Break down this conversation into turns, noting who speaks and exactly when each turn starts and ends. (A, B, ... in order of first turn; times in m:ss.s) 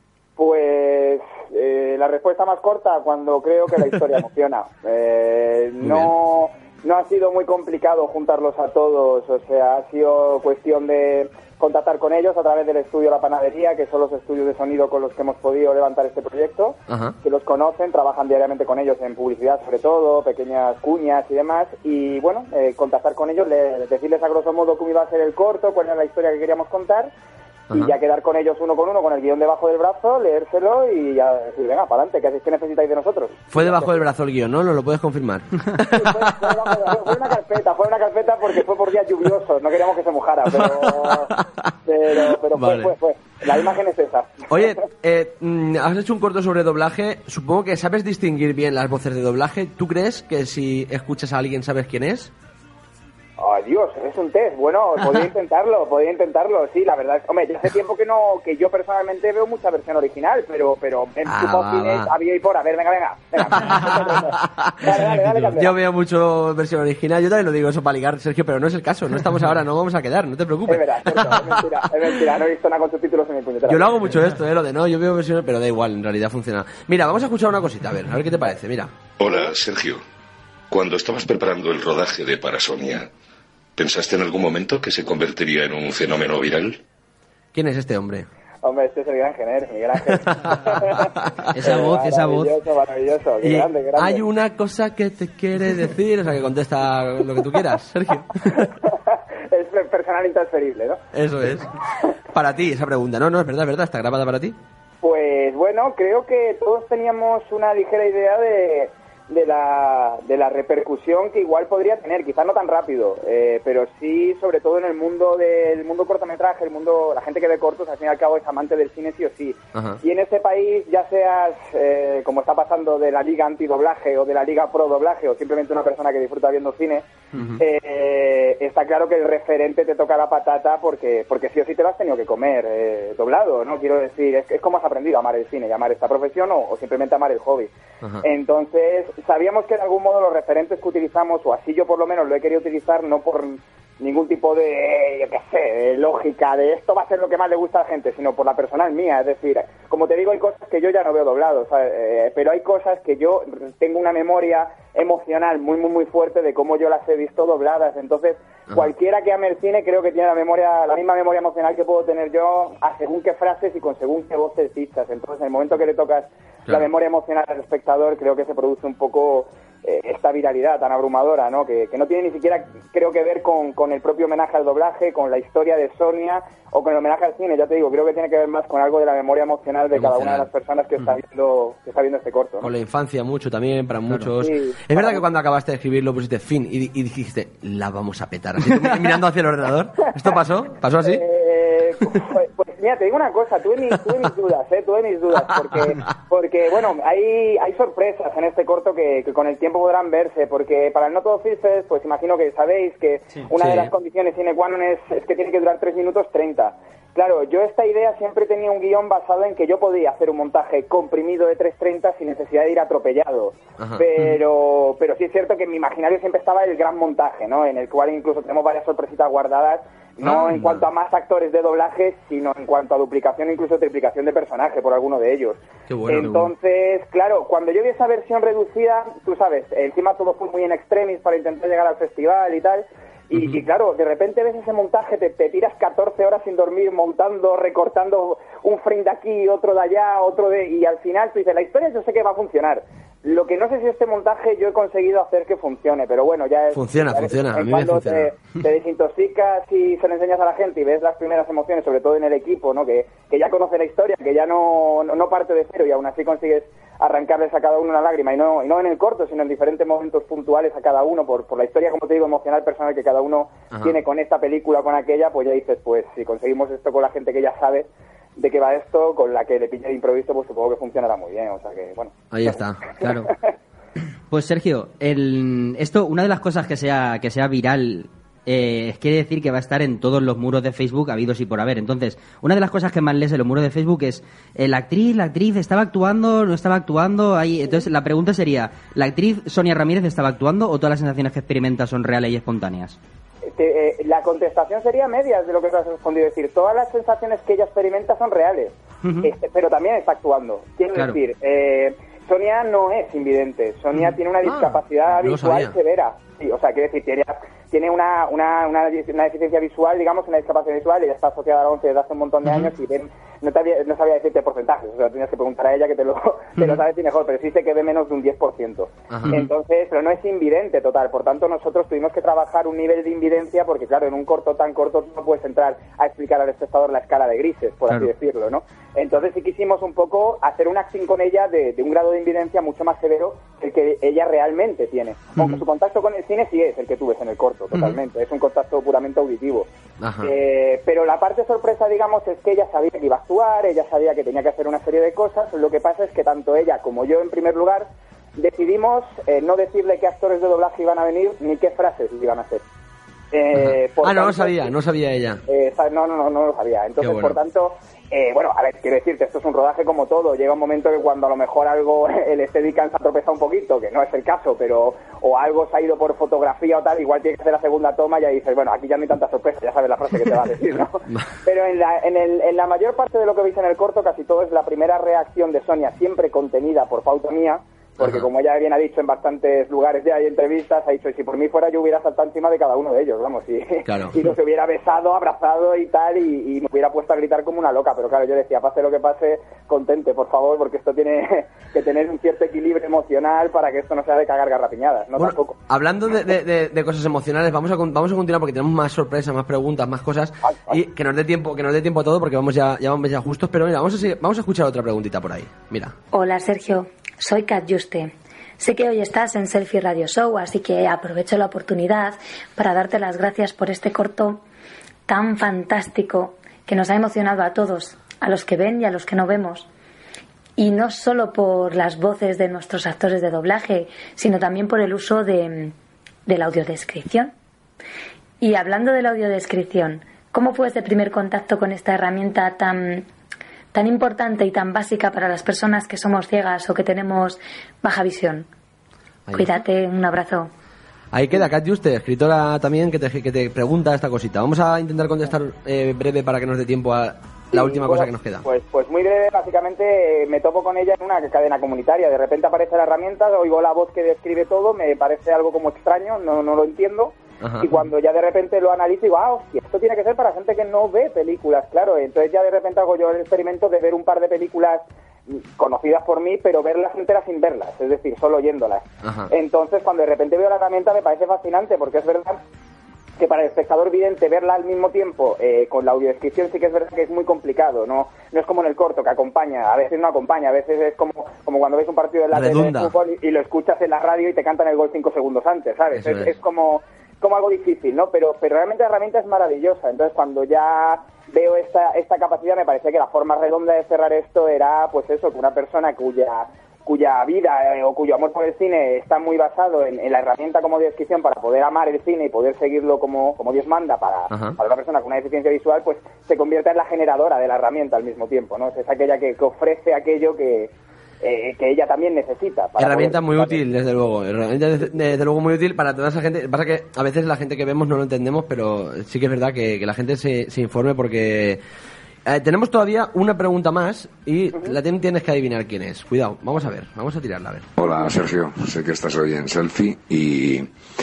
0:00.4-0:27.1 A
0:05.8-0:06.1 B
0:16.9-0:17.2 B
0:27.7-0:34.0 A
0:33.5-0:36.9 B
0:35.8-0:41.3 A
0:40.5-0:42.9 B
0:41.9-0:44.8 A
0:44.5-0:52.3 B
0:53.4-1:05.8 A
1:01.2-1:02.1 B
1:03.4-1:12.1 B
1:10.7-1:14.0 A
1:13.7-1:18.9 B
1:19.2-1:20.0 C
1:20.7-1:23.1 C
1:23.8-1:26.8 C
1:27.5-1:28.3 B
1:28.6-1:31.1 A
1:30.1-1:31.7 B
1:31.5-1:32.5 D
1:31.6-1:34.2 A
1:33.4-1:38.7 B
1:38.8-1:41.0 A
1:41.1-1:41.7 B
1:42.3-1:44.6 B
1:45.0-2:07.1 A
1:59.7-2:00.0 B
2:07.4-2:07.6 B
2:07.6-2:17.7 A
2:18.2-3:02.7 A
2:59.9-3:00.5 B
3:02.6-3:11.2 B
3:04.4-3:05.2 A
3:11.0-4:32.5 A
3:23.5-3:23.9 B
3:33.8-3:34.1 B
3:40.2-3:40.8 B
3:45.9-3:46.5 B
4:06.7-4:08.3 B
4:23.7-4:24.0 B
4:32.3-4:32.8 B
4:33.0-4:33.3 D
4:34.3-4:53.0 D
4:53.5-5:39.7 A
4:59.0-4:59.3 D
5:00.9-5:01.2 D
5:04.4-5:05.7 B
5:35.4-5:35.6 D
5:40.0-5:40.3 B
5:40.2-5:52.6 A
5:53.3-5:54.7 A
5:53.6-5:55.4 B
5:55.5-6:35.6 A
5:57.0-5:57.4 B
6:18.0-6:18.3 B
6:23.9-6:24.2 B
6:35.2-6:45.9 B
6:40.4-6:40.8 A
6:46.1-6:54.4 E
6:55.1-6:59.7 E
7:00.6-7:05.7 E
7:06.3-7:07.3 E
7:08.4-7:13.0 E
7:13.7-7:18.5 E
7:19.3-7:20.5 E
7:21.1-7:28.4 B
7:27.5-7:52.4 A
7:37.4-7:37.7 B
7:49.0-7:49.3 B
7:53.2-8:33.6 A
8:02.3-8:02.9 B
8:05.9-8:06.3 B
8:24.3-8:24.6 B
8:32.8-8:41.6 B
8:42.2-8:47.7 B
8:47.8-8:50.7 F